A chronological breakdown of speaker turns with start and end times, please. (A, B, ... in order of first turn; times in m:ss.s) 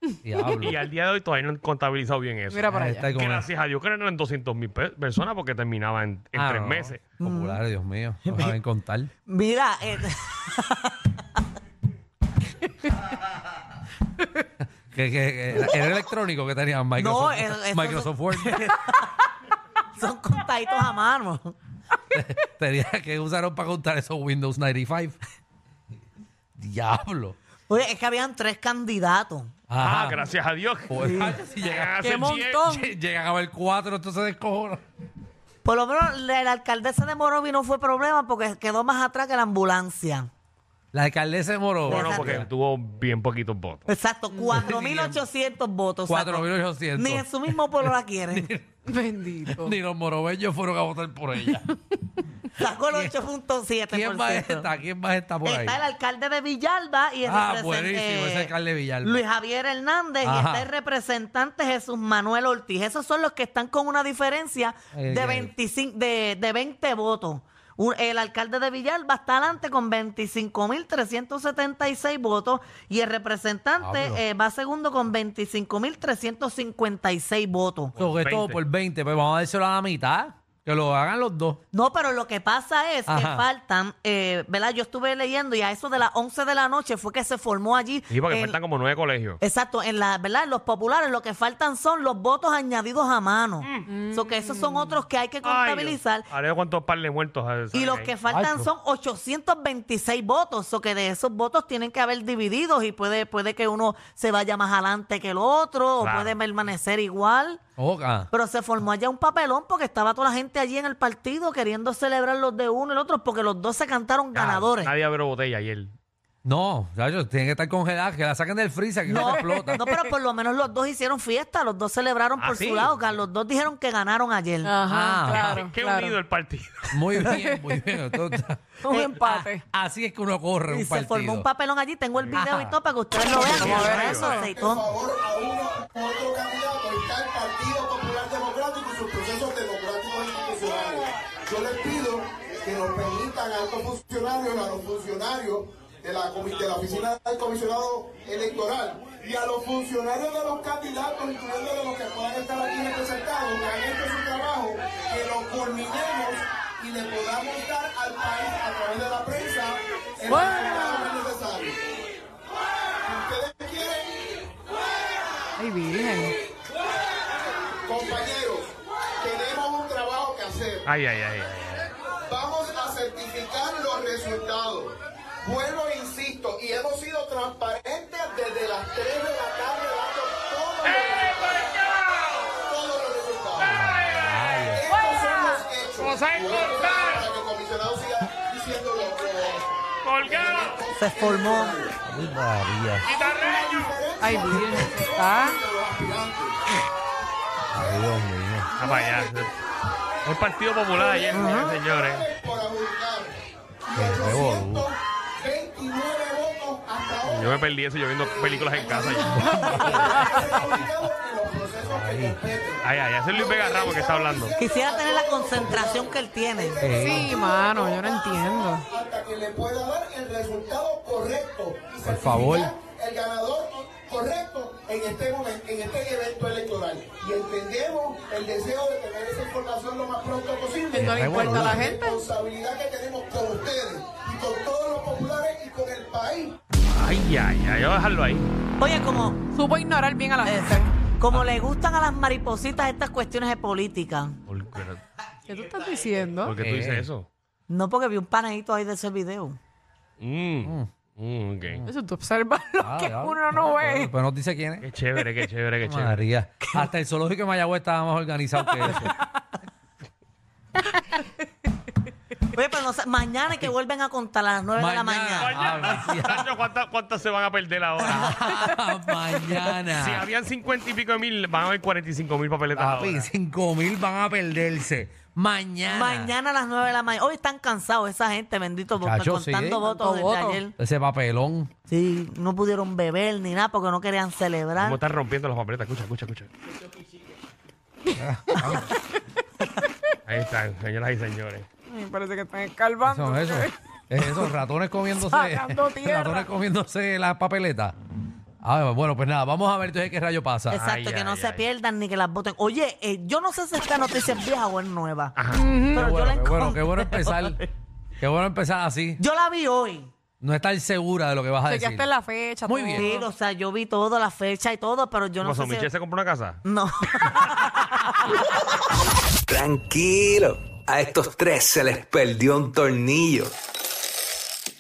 0:00.2-0:00.8 A
0:00.6-0:07.0 B
0:02.5-0:03.1 C
0:02.7-0:03.5 A
0:06.4-0:09.1 A
0:07.2-0:07.6 D
0:08.3-0:08.5 D
0:09.3-0:11.1 D
0:14.9-0:18.7 A
0:17.0-0:19.2 D
0:20.0-0:21.6 D
0:22.1-0:25.2 A
0:26.6-0:27.4 A
0:27.7-0:29.5 D
0:29.7-0:30.2 A
0:29.8-0:32.7 B
0:30.9-0:32.0 A
0:31.0-0:31.4 D
0:32.0-0:32.9 C
0:32.6-0:34.8 A
0:35.6-0:40.3 D
0:40.9-0:42.5 A
0:41.9-0:43.9 B
0:41.9-0:42.4 D
0:43.9-0:48.5 D
0:44.5-0:45.2 A
0:46.1-0:48.8 A
0:48.9-0:49.8 C
0:49.5-0:51.7 A
0:52.6-0:54.7 D
0:53.9-0:55.8 A
0:55.4-1:18.0 D
0:57.2-0:59.2 A
1:00.2-1:00.7 A
1:04.9-1:05.5 A
1:13.8-1:14.2 A
1:18.0-1:18.6 B
1:18.0-1:21.6 A
1:21.7-1:28.6 D
1:23.1-1:23.5 A
1:28.1-1:29.4 B
1:29.4-1:36.3 D
1:33.6-1:33.9 B
1:33.9-1:34.9 C
1:35.4-1:38.1 B
1:37.7-1:47.6 D
1:38.3-1:38.7 A
1:46.0-1:46.4 B
1:47.8-1:48.3 A
1:48.3-1:54.9 D
1:54.3-1:55.9 B
1:56.4-1:59.8 A
1:59.1-2:00.1 C
1:59.1-2:04.8 D
2:02.4-2:03.0 B
2:04.6-2:06.2 C
2:04.9-2:05.6 A
2:05.4-2:06.9 B
2:06.9-2:08.6 A
2:07.2-2:07.9 C
2:08.8-2:09.6 C
2:08.9-2:09.5 D
2:09.6-2:11.5 A
2:10.7-2:14.8 D
2:12.4-2:12.8 A
2:13.4-2:14.5 C
2:13.6-2:14.4 B
2:13.6-2:41.8 E
2:40.3-2:41.2 C
2:43.1-2:44.5 E
2:45.6-2:46.4 C
2:47.8-2:50.9 E
2:50.8-2:51.9 B
2:52.3-3:01.7 E
3:02.7-3:03.8 E
3:03.6-3:04.8 A
3:04.7-3:12.0 E
3:10.0-3:10.8 B
3:11.0-3:11.8 D
3:12.0-3:13.1 A
3:13.1-3:16.6 E
3:14.2-3:15.6 C
3:17.7-3:18.7 A
3:17.8-3:18.0 E
3:18.8-3:19.5 B
3:18.8-3:19.2 E
3:20.2-3:22.3 B
3:20.9-3:27.7 E
3:21.3-3:21.7 D
3:24.0-3:24.9 A
3:27.3-3:29.5 B
3:28.3-3:56.6 E
3:29.2-3:30.1 A
3:29.5-3:30.6 C
3:31.8-3:32.4 A
3:32.8-3:34.5 B
3:34.6-3:36.8 D
3:36.8-3:37.3 A
3:36.8-3:38.9 C
3:42.0-3:42.7 A
3:50.9-3:52.1 C
3:51.0-3:51.8 A
3:56.9-3:58.5 B
3:58.8-3:59.4 D
3:59.5-4:00.9 C
4:00.4-4:04.4 D
4:04.5-4:05.0 B
4:05.5-4:06.6 C
4:06.4-4:07.3 B
4:06.6-4:07.1 A
4:07.7-4:09.6 D
4:10.2-4:11.8 B
4:10.6-4:10.9 A
4:11.8-4:14.1 C
4:12.8-4:14.8 A
4:14.8-4:16.3 B
4:15.8-4:19.2 A
4:22.5-4:25.6 D
4:24.8-4:26.5 A
4:25.4-4:28.6 B
4:28.0-4:30.2 A
4:29.7-4:33.3 B
4:32.8-4:36.4 A
4:35.9-4:40.7 D
4:39.0-4:39.8 A
4:39.8-4:40.6 C
4:40.8-4:41.7 A
4:41.9-4:45.0 D
4:44.8-4:46.5 B
4:48.2-4:48.9 A
4:50.3-4:51.7 B
4:51.9-4:53.7 C
4:53.0-4:58.0 A
4:54.2-4:54.5 C
4:55.2-4:56.5 C
4:58.6-5:00.8 A
5:00.7-5:01.7 B
5:00.7-5:05.4 D
5:05.4-5:05.7 B
5:05.6-5:06.1 C
5:05.9-5:07.7 D
5:06.0-5:07.6 A
5:08.2-5:09.2 A
5:09.2-5:10.1 D
5:10.4-5:12.1 A
5:11.7-5:13.3 C
5:12.6-5:13.1 A
5:13.0-5:15.9 D
5:15.4-5:16.6 B
5:16.6-5:18.3 D
5:19.5-5:23.6 F